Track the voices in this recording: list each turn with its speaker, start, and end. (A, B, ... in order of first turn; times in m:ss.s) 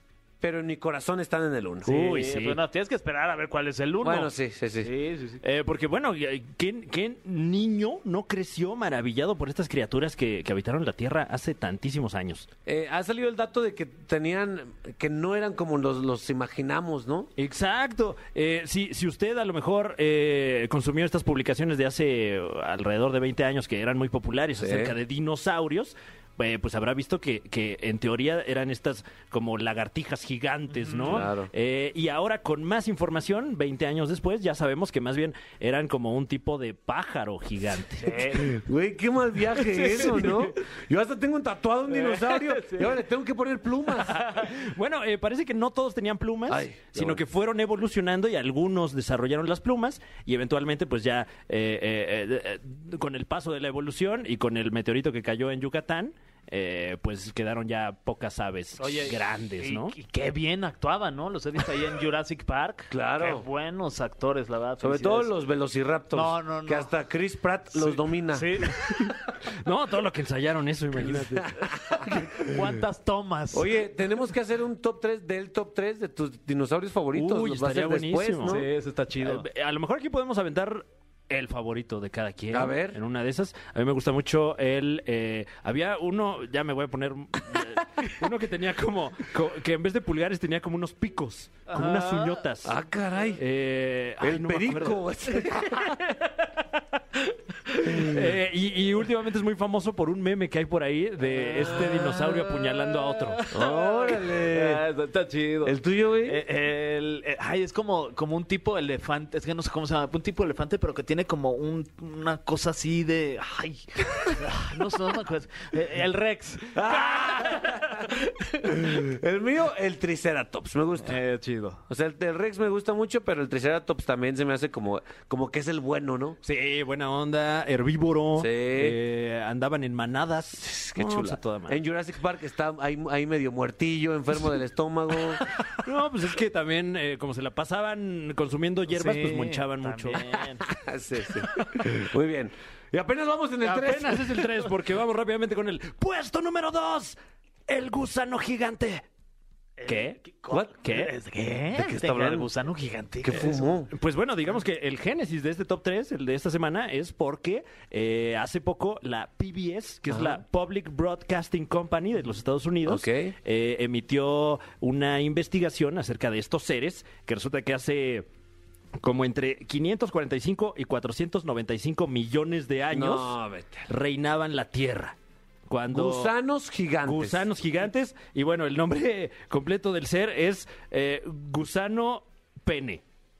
0:00.4-0:02.0 A
0:01.9-0:05.4 B
0:01.9-0:02.6 C
0:04.0-0:04.9 A
0:05.4-0:12.5 C
0:12.7-0:17.3 A
0:17.4-0:38.3 C
0:24.6-0:25.0 A
0:30.7-0:31.3 B
0:31.1-0:31.5 A
0:38.0-0:38.5 B
0:38.4-0:44.3 A
0:39.7-0:40.5 C
0:39.8-0:40.1 B
0:41.9-0:42.9 B
0:44.1-1:00.0 C
0:46.5-0:47.2 A
0:58.8-1:05.3 B
1:02.9-1:03.4 A
1:04.8-1:09.0 A
1:06.1-1:06.9 B
1:07.8-1:08.8 B
1:09.6-1:11.6 C
1:11.0-1:12.4 A
1:12.0-1:13.7 B
1:13.5-1:18.6 A
1:17.1-1:18.6 C
1:18.4-1:19.4 B
1:19.2-1:32.8 C
1:22.5-1:23.0 A
1:31.7-1:32.4 B
1:32.6-1:33.4 A
1:33.4-1:43.5 C
1:34.2-1:36.0 A
1:37.8-1:38.3 A
1:41.5-1:42.4 A
1:43.2-1:57.6 B
1:43.5-1:44.8 A
1:45.6-1:46.4 A
1:56.7-2:01.2 A
2:01.0-2:01.8 B
2:01.9-2:06.4 A
2:06.4-2:11.8 C
2:08.4-2:09.0 A
2:10.6-2:15.4 A
2:15.6-2:20.2 C
2:18.9-2:20.6 B
2:20.6-2:24.5 A
2:23.6-2:27.2 C
2:27.7-2:29.0 C
2:29.8-2:33.7 B
2:29.9-2:30.2 C
2:30.8-2:31.1 C
2:31.8-2:32.5 A
2:33.2-2:33.9 A
2:33.9-2:48.2 C
2:40.1-2:40.4 A
2:42.9-2:43.4 A
2:49.0-2:53.4 C
2:52.9-2:53.9 A
2:53.9-2:55.1 C
2:55.7-2:56.3 C
2:55.9-2:57.5 A
2:57.0-3:03.0 C